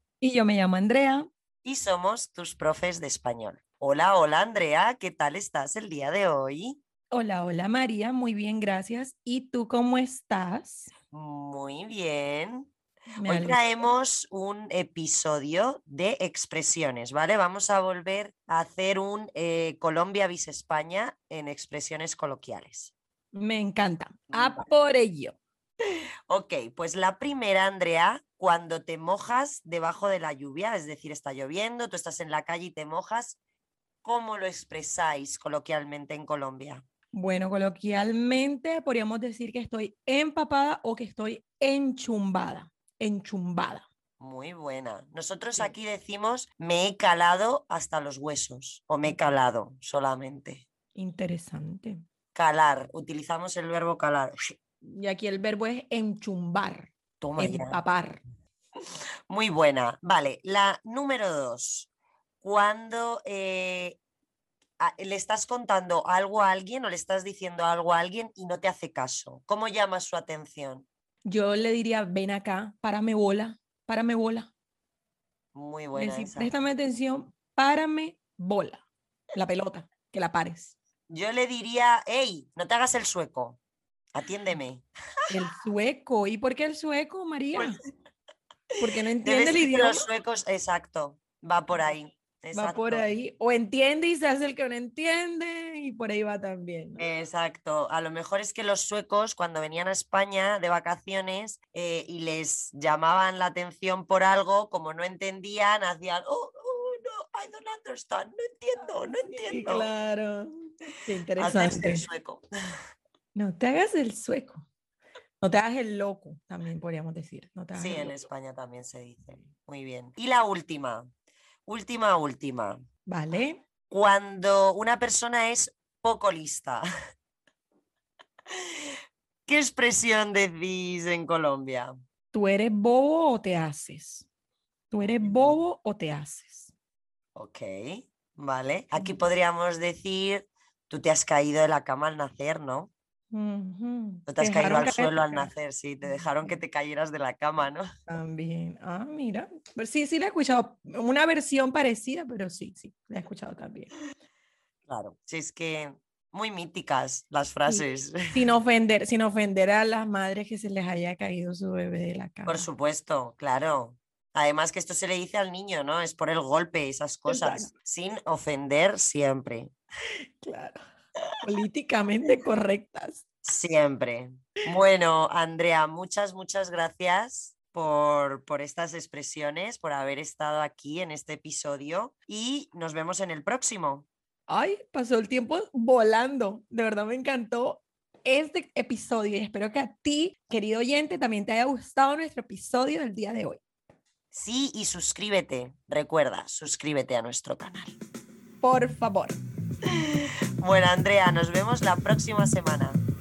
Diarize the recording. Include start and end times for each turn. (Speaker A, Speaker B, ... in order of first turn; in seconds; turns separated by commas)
Speaker A: 0.2-1.3, Speaker B: 1.6-6.8, Speaker A: 7.1-10.9, Speaker B: 11.1-12.7, Speaker A: 13.1-13.6, Speaker B: 13.2-22.9, Speaker A: 23.3-25.4, Speaker B: 24.3-24.7, Speaker B: 26.3-33.4, Speaker B: 34.0-36.8, Speaker A: 37.1-43.9, Speaker B: 44.2-50.6, Speaker A: 50.9-52.0, Speaker B: 52.3-54.3, Speaker A: 54.8-58.2, Speaker B: 57.2-57.8, Speaker B: 59.3-61.9, Speaker B: 62.4-64.0, Speaker B: 64.8-70.9, Speaker A: 71.2-74.5, Speaker B: 75.5-76.5, Speaker A: 75.9-80.8, Speaker B: 81.1-83.6, Speaker B: 84.1-84.8, Speaker A: 85.3-87.8, Speaker A: 88.8-90.0, Speaker B: 89.2-93.1, Speaker A: 92.5-97.0, Speaker B: 97.0-109.9, Speaker A: 109.3-110.5, Speaker A: 111.0-112.0, Speaker B: 111.4-112.4, Speaker A: 113.3-114.7, Speaker A: 115.4-118.2, Speaker B: 117.7-121.1, Speaker B: 121.7-122.8, Speaker A: 123.0-123.6, Speaker B: 123.9-126.8, Speaker B: 129.5-131.9, Speaker A: 132.3-134.3, Speaker A: 134.9-136.7, Speaker B: 135.0-135.6, Speaker B: 137.3-142.9, Speaker A: 143.3-145.5, Speaker B: 144.3-147.8, Speaker A: 146.0-146.5, Speaker A: 148.1-153.9, Speaker B: 154.9-158.4, Speaker A: 157.7-162.7, Speaker B: 162.4-169.7, Speaker A: 167.3-167.7, Speaker A: 170.4-170.8, Speaker A: 171.4-173.2, Speaker B: 173.4-184.1, Speaker A: 184.5-193.6, Speaker B: 194.3-197.9, Speaker A: 198.6-199.4, Speaker B: 200.1-203.0